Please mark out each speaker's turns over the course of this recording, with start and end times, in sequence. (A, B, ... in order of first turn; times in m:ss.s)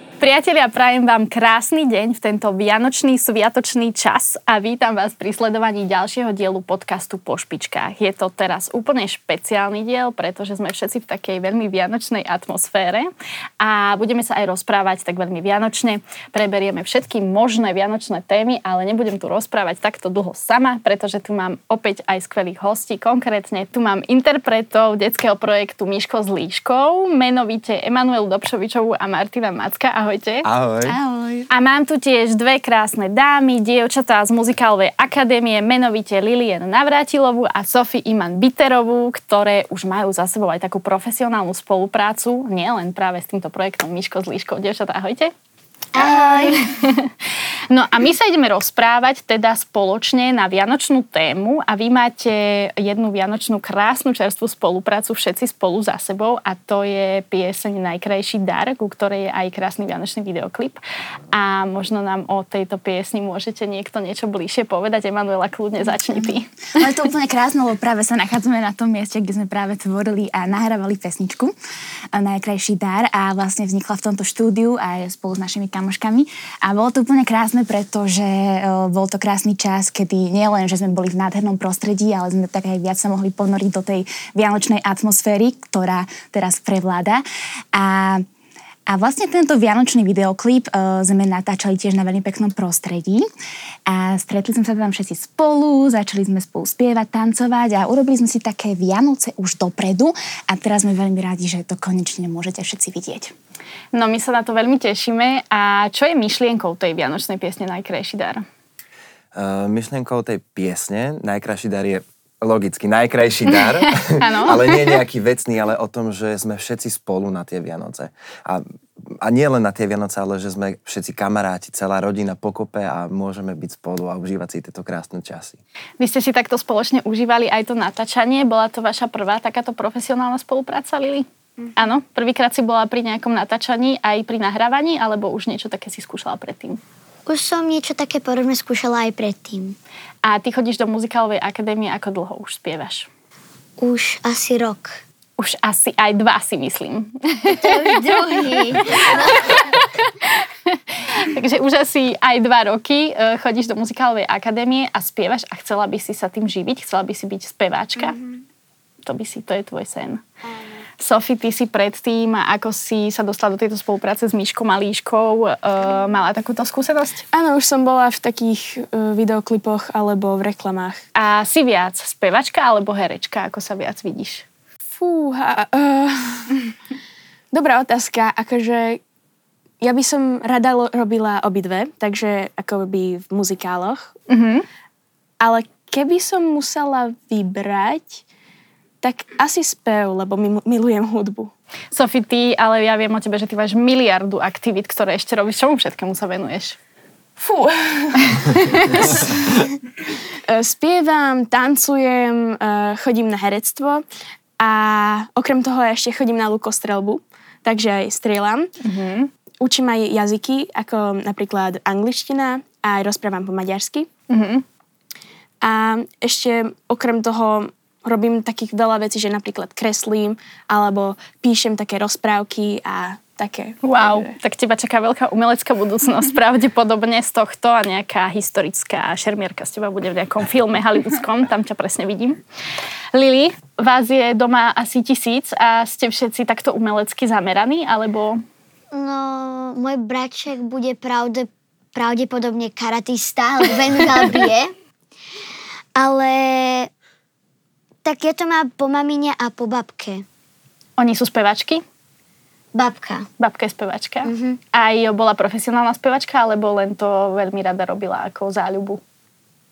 0:00.2-0:30.5 A
0:30.4-0:31.0 B
0:30.8-0:31.5 C
0:31.5-0:45.3 A
0:45.9-0:46.7 D
0:46.0-0:47.1 A
0:47.7-1:00.8 A
1:01.3-1:06.5 A
1:06.0-1:11.5 C
1:12.1-1:28.2 C
1:28.9-1:33.3 C
1:33.9-1:43.3 C
1:43.9-1:48.4 A
1:49.4-1:58.6 B
1:53.8-1:55.0 A
1:59.2-2:05.6 B
2:06.0-2:16.8 A
2:17.3-2:19.8 D
2:20.2-2:23.1 A
2:23.8-2:25.0 D
2:25.4-2:38.2 A
2:27.5-2:29.7 D
2:38.1-2:38.4 D
2:39.0-2:40.2 A
2:41.0-2:47.2 A
2:47.3-2:51.0 E
2:51.2-2:54.4 A
2:55.0-2:56.7 E
2:57.5-2:59.0 E
2:59.8-3:04.2 E
3:04.3-3:04.6 A
3:05.4-3:08.2 E
3:09.0-3:11.5 E
3:11.9-3:16.8 A
3:17.4-3:19.4 E
3:18.3-3:19.0 A
3:20.5-3:24.0 E
3:24.6-3:28.7 E
3:28.8-3:29.3 A
3:29.6-3:34.1 E
3:34.3-3:34.6 A
3:35.6-3:44.3 E
3:43.8-3:52.4 A
3:53.1-3:58.4 A
3:58.9-4:04.7 D
4:06.0-4:06.9 D
4:08.0-4:10.2 D
4:11.0-4:11.8 A
4:12.8-4:13.3 D
4:13.4-4:19.0 A
4:14.2-4:14.6 D